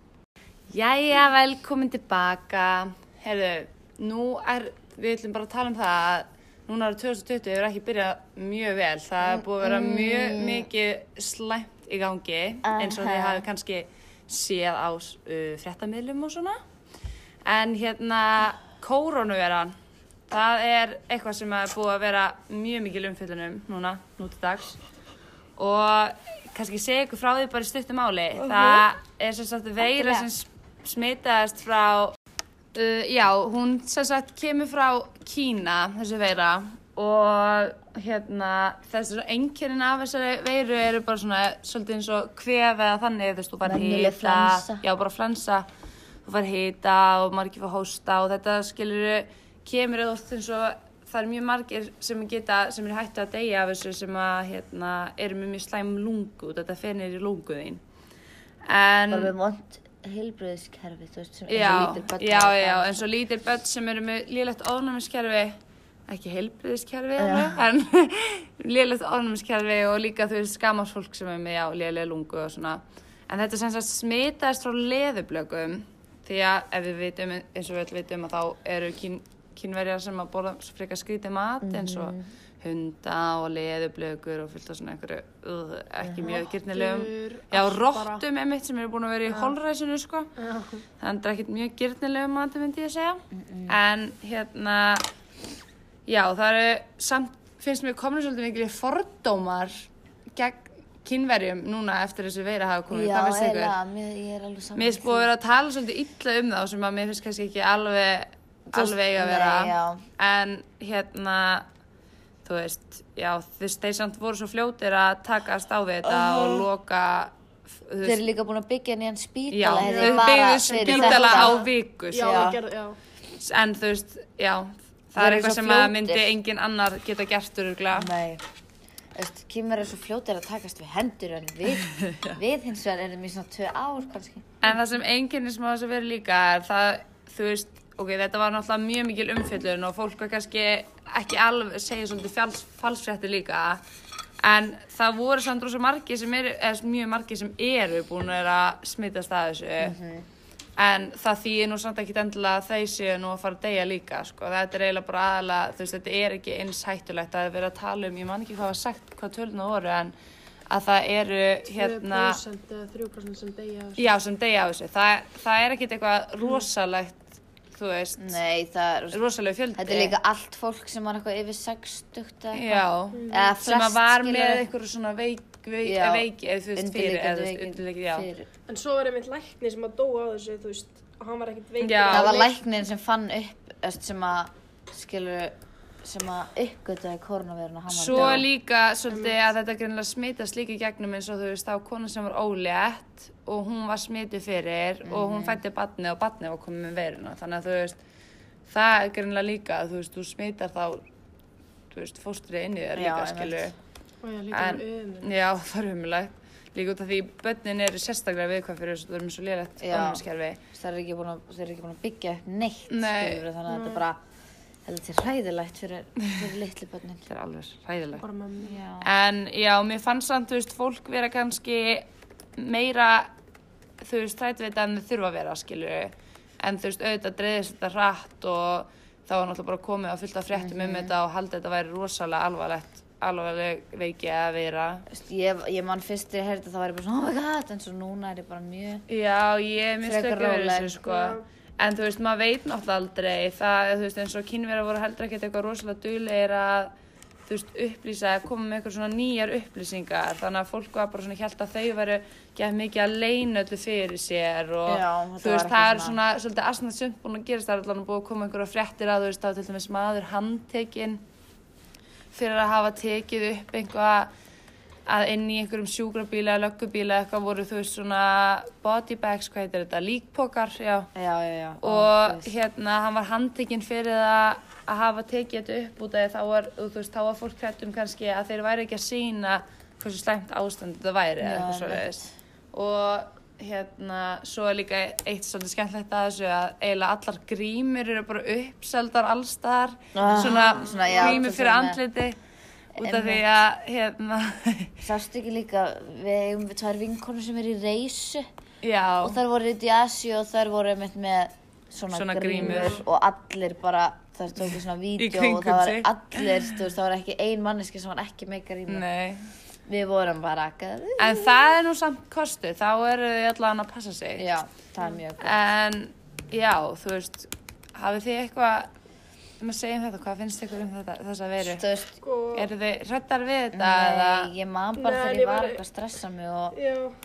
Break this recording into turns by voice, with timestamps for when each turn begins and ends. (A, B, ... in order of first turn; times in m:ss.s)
0:00.7-0:16.6 A
0:09.2-0:10.7 B
0:12.6-0:13.4 B
0:17.4-0:19.7 A
0:20.3-0:24.8 A
0:25.6-0:32.2 A
0:28.4-0:28.8 B
0:29.9-0:30.3 B
0:32.7-0:45.6 A
0:43.6-0:44.8 B
0:46.2-0:57.8 A
0:58.6-0:59.3 A
0:59.1-1:03.1 B
1:01.5-1:05.6 A
1:06.1-1:30.3 A
1:07.2-1:07.6 B
1:21.6-1:22.2 B
1:26.0-1:26.4 B
1:26.3-1:28.2 C
1:29.3-1:29.5 C
1:30.4-1:30.8 C
1:31.0-1:35.1 A
1:33.3-1:33.8 B
1:36.1-1:43.7 A
1:42.9-1:45.3 B
1:44.8-1:51.7 A
1:48.7-1:50.0 B
1:52.4-1:58.2 A
1:56.1-1:56.7 B
1:58.0-2:01.6 B
1:59.5-2:02.6 A
1:59.8-2:03.0 C
2:02.2-2:02.6 B
2:03.4-2:08.1 A
2:05.2-2:06.3 B
2:07.9-2:08.4 B
2:09.1-2:14.5 B
2:14.6-2:23.8 A
2:24.4-2:30.0 A
2:29.8-2:30.3 B
2:30.8-2:40.1 A
2:40.7-2:42.4 A
2:41.7-2:44.0 C
2:44.0-2:48.4 A
2:48.2-2:49.2 B
2:49.1-2:50.1 A
2:49.8-2:54.7 B
2:52.5-2:58.3 A
2:53.1-2:53.5 C
2:55.8-2:58.5 B
2:58.7-3:02.6 C
3:01.8-3:02.4 A
3:02.1-3:08.5 B
3:07.9-3:18.0 A
3:09.1-3:09.4 C
3:15.0-3:15.6 B
3:18.7-3:21.0 A
3:21.9-3:23.7 A
3:22.9-3:23.7 B
3:24.2-3:25.3 C
3:24.5-3:30.6 A
3:29.8-3:34.2 B
3:32.9-3:33.4 A
3:33.7-3:34.0 C
3:34.8-3:37.2 B
3:37.3-3:38.2 A
3:38.2-3:38.8 C
3:38.6-3:39.1 B
3:39.0-3:43.3 A
3:44.0-3:55.1 A
3:50.5-3:51.1 B
3:55.1-3:59.0 B
3:59.1-4:06.9 A
4:00.0-4:01.0 B
4:01.0-4:01.4 C
4:07.5-4:21.2 A
4:14.9-4:16.2 B
4:22.3-4:24.3 A
4:25.1-4:31.1 A
4:31.1-4:32.5 B
4:31.8-4:52.4 A
4:41.4-4:42.3 B
4:50.1-4:52.0 B
4:53.0-4:53.4 B
4:53.0-4:54.9 A
4:55.0-4:58.5 B
4:58.8-4:59.4 A
4:59.2-5:09.0 B
5:02.1-5:03.0 A
5:02.6-5:03.0 C
5:05.2-5:06.8 A
5:08.9-5:09.4 A
5:09.9-5:11.7 B
5:11.2-5:14.5 A
5:14.4-5:15.6 B
5:15.4-5:18.9 A
5:19.6-5:21.8 A
5:21.6-5:22.2 B
5:22.2-5:22.7 C
5:22.6-5:24.5 A
5:23.7-5:26.8 B
5:25.0-5:25.8 C
5:26.7-5:27.1 C